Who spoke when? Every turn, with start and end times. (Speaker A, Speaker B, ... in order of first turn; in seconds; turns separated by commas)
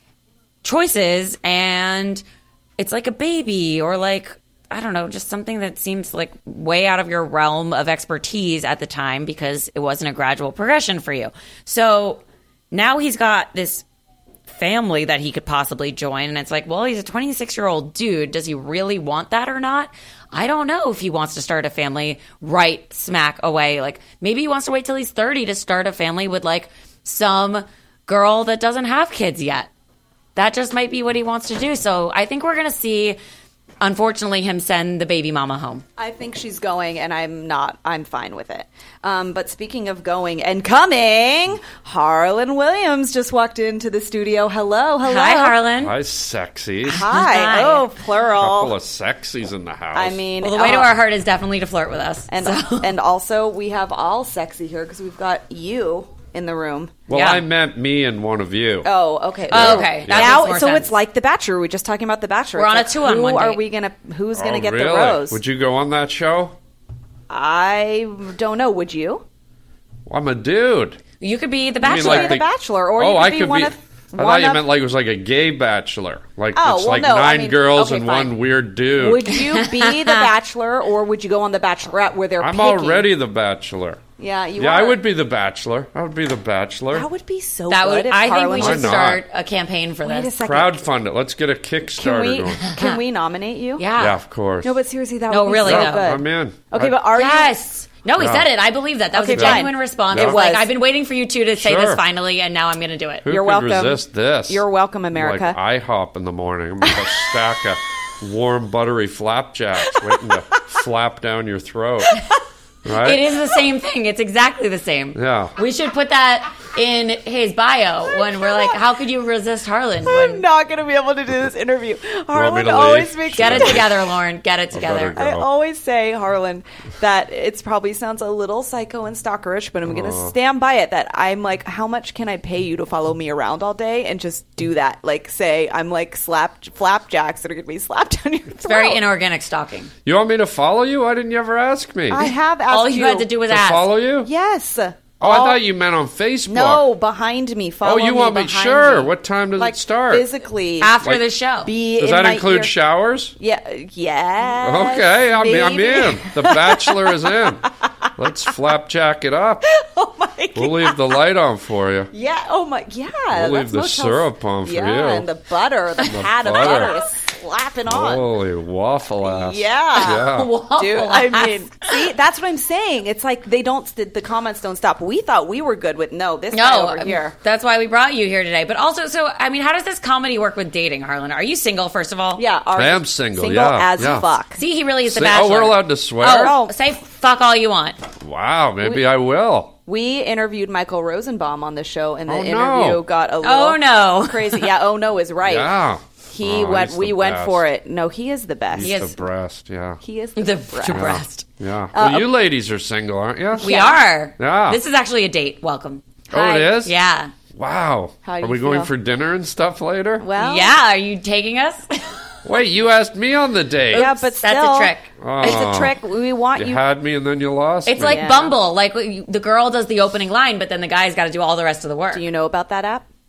Speaker A: 0.6-2.2, Speaker A: 2.8-13.8, Speaker A: 14.5-29.7, Speaker A: 30.4-33.2, Speaker A: 33.8-35.8, Speaker B: 36.0-45.6, Speaker A: 45.0-46.0, Speaker C: 45.8-47.1, Speaker A: 46.9-47.9, Speaker B: 46.9-48.8, Speaker C: 48.4-50.2, Speaker B: 49.9-50.9, Speaker A: 50.4-53.0, Speaker B: 52.3-57.0, Speaker C: 57.1-58.9, Speaker A: 57.1-57.4, Speaker B: 58.8-65.4, Speaker C: 59.5-60.5, Speaker A: 59.5-60.9, Speaker A: 62.6-63.6, Speaker C: 64.3-66.6, Speaker B: 67.3-69.2, Speaker C: 70.1-71.0, Speaker A: 71.2-72.4, Speaker C: 71.8-79.3, Speaker B: 71.8-74.6, Speaker B: 76.5-78.3, Speaker B: 79.0-83.1, Speaker A: 79.3-80.2, Speaker C: 82.4-84.0, Speaker B: 84.2-85.0, Speaker C: 84.6-87.1, Speaker B: 86.9-89.1, Speaker A: 87.7-90.3, Speaker C: 88.6-89.2, Speaker B: 90.0-90.8, Speaker C: 90.4-92.8, Speaker B: 92.0-93.9, Speaker A: 92.6-93.0, Speaker A: 93.8-94.2, Speaker C: 94.0-94.8, Speaker B: 94.6-97.6, Speaker A: 95.3-96.1, Speaker C: 95.6-97.0, Speaker A: 97.1-103.3, Speaker C: 98.2-98.5, Speaker B: 99.1-100.7, Speaker C: 99.3-100.4, Speaker C: 101.6-102.0, Speaker C: 103.2-112.2, Speaker B: 103.3-105.6, Speaker B: 106.8-107.2, Speaker B: 109.9-110.4, Speaker C: 112.8-113.2, Speaker A: 113.0-120.4, Speaker C: 115.2-115.5, Speaker B: 118.4-118.7, Speaker B: 120.1-123.9, Speaker C: 122.3-124.1, Speaker A: 123.4-125.2, Speaker C: 124.7-125.5, Speaker B: 125.1-139.0, Speaker C: 129.9-130.3, Speaker A: 138.7-139.9, Speaker C: 140.1-142.3, Speaker B: 142.1-143.3, Speaker A: 142.7-143.9, Speaker C: 143.4-144.3, Speaker B: 144.2-145.6, Speaker C: 145.2-146.8, Speaker B: 146.5-151.0, Speaker C: 147.8-150.3, Speaker A: 150.8-151.7, Speaker B: 151.6-152.7, Speaker C: 152.0-153.3, Speaker B: 153.4-157.5, Speaker C: 154.6-159.7, Speaker B: 159.6-161.2, Speaker C: 160.6-162.1, Speaker B: 162.1-168.3, Speaker C: 163.3-165.3, Speaker C: 166.0-167.0, Speaker C: 167.9-170.5, Speaker B: 169.2-177.3, Speaker A: 170.0-172.0, Speaker A: 176.5-182.4, Speaker B: 182.4-184.6, Speaker C: 182.8-184.3, Speaker A: 184.6-188.0, Speaker C: 185.1-186.6, Speaker B: 186.3-186.8, Speaker C: 188.2-189.8, Speaker B: 189.9-195.7, Speaker C: 192.3-193.0, Speaker A: 193.4-194.7, Speaker C: 195.4-197.6, Speaker B: 196.3-199.1, Speaker C: 198.7-200.0, Speaker A: 198.8-199.1, Speaker B: 200.0-201.2, Speaker A: 200.4-201.4, Speaker C: 200.9-204.8, Speaker B: 201.9-202.3, Speaker B: 203.6-204.0, Speaker A: 203.6-207.3, Speaker C: 206.3-206.9, Speaker B: 206.3-206.6, Speaker C: 207.5-210.3, Speaker B: 208.2-208.9, Speaker B: 210.2-210.7, Speaker A: 210.4-212.2, Speaker C: 212.4-214.1, Speaker B: 213.9-216.8, Speaker A: 213.9-215.7, Speaker C: 215.2-216.0, Speaker C: 216.6-218.3, Speaker A: 217.9-222.3, Speaker B: 218.0-218.6, Speaker B: 222.1-223.1